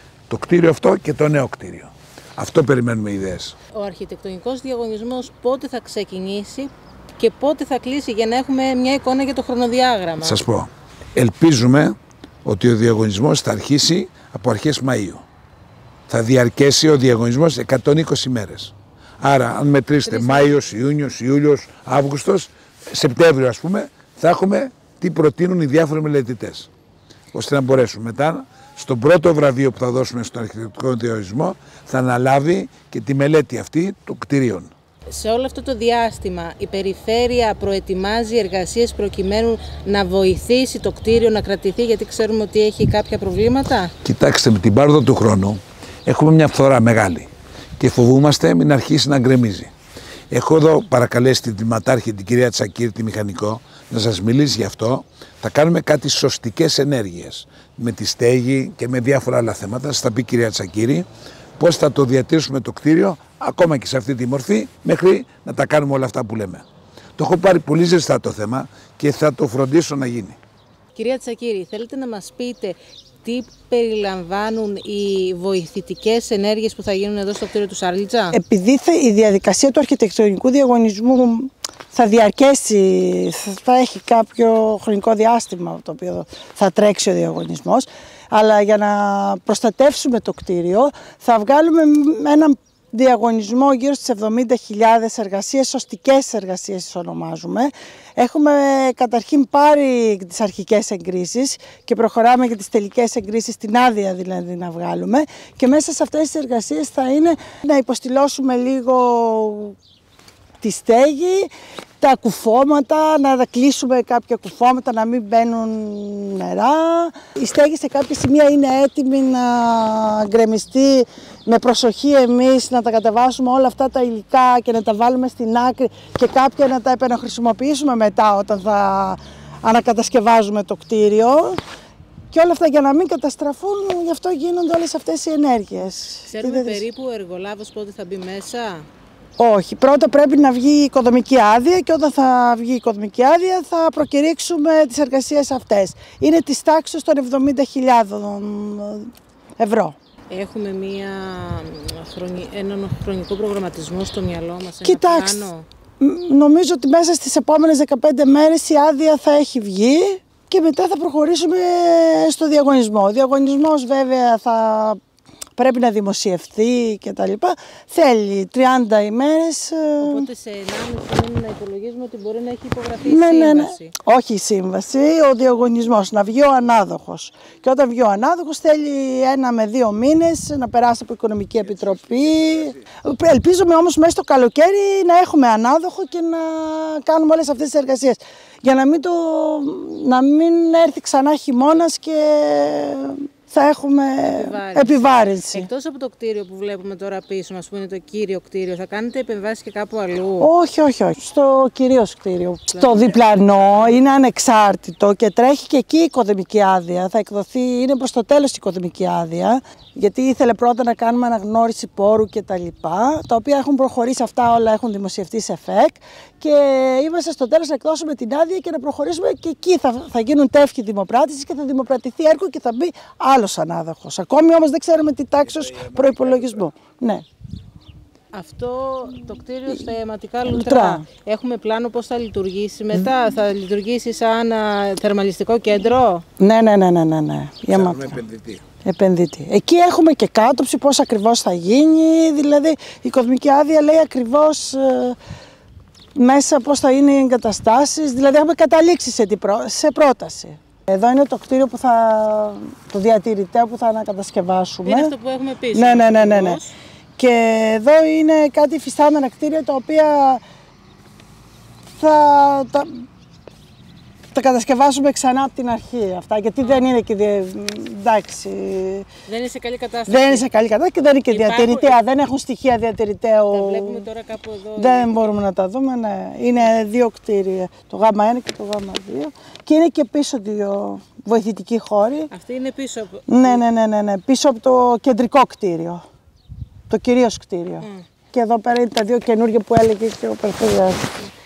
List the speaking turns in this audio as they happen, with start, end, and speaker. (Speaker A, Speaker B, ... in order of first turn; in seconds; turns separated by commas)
Speaker A: 0.3-3.5, Speaker B: 3.7-10.4, Speaker A: 10.2-15.2, Speaker A: 16.1-26.7, Speaker B: 20.1-20.7, Speaker A: 27.3-34.7, Speaker B: 35.1-43.9, Speaker A: 44.0-49.7, Speaker A: 50.3-61.1, Speaker A: 61.6-66.7, Speaker A: 67.2-70.4, Speaker B: 70.9-78.4, Speaker C: 78.3-109.8, Speaker C: 110.6-131.6, Speaker C: 132.3-136.8, Speaker B: 136.2-138.9, Speaker C: 139.4-149.9, Speaker B: 150.3-155.7, Speaker C: 154.8-155.4, Speaker C: 156.0-165.0, Speaker C: 165.6-170.3, Speaker B: 170.0-173.9, Speaker C: 173.0-195.7, Speaker B: 194.2-200.5, Speaker C: 200.4-227.2, Speaker B: 202.7-203.1, Speaker B: 228.3-236.2, Speaker C: 230.4-231.1, Speaker C: 236.4-238.2, Speaker A: 237.7-238.6, Speaker C: 238.8-245.2, Speaker C: 246.2-255.1, Speaker B: 254.8-256.7, Speaker C: 255.7-256.6, Speaker C: 257.2-260.4, Speaker C: 261.9-263.0, Speaker C: 264.3-269.1, Speaker B: 269.2-270.4, Speaker C: 270.1-274.1, Speaker B: 271.3-271.9, Speaker B: 273.5-275.2, Speaker C: 274.8-282.3, Speaker B: 282.3-283.6, Speaker C: 283.3-286.0, Speaker C: 286.9-291.1